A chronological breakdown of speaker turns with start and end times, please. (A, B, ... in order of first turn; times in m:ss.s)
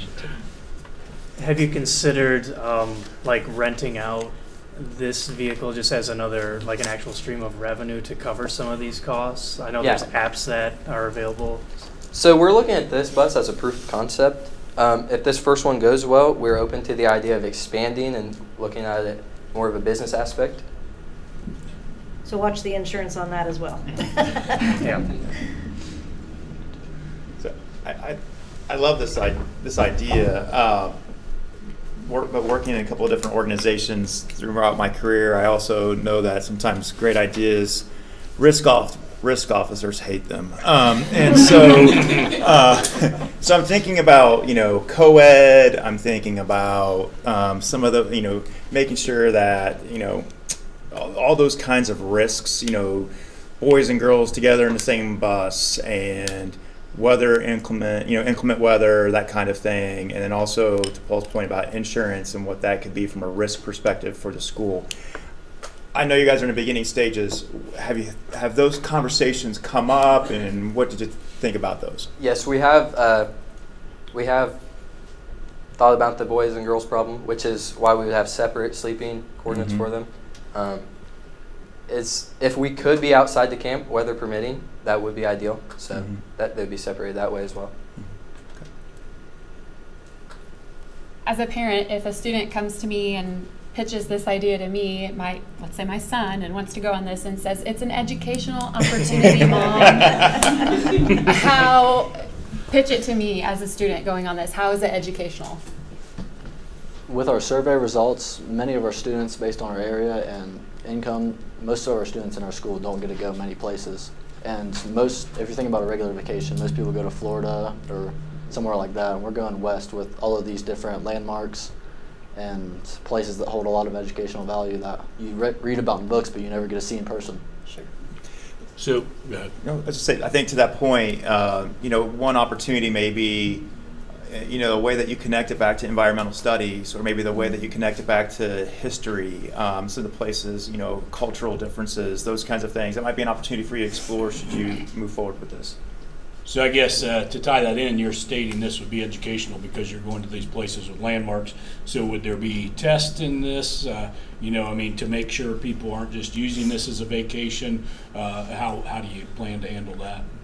0:01.4-0:11.6 A
0:09.8-0:10.1 B
0:12.1-0:20.6 B
0:22.2-0:24.5 C
0:27.4-0:31.0 D
0:32.0-0:50.4 D
0:50.9-1:04.9 D
1:05.9-1:12.1 D
1:12.2-1:13.3 B
1:14.1-1:14.6 B
1:15.8-1:20.9 B
1:19.5-1:19.9 D
1:21.9-1:27.7 B
1:25.9-1:26.2 D
1:28.0-1:28.6 D
1:31.2-1:45.6 E
1:47.1-2:01.7 F
2:02.3-2:07.4 F
2:08.8-2:09.5 G
2:09.6-2:25.8 D
2:26.4-2:40.2 G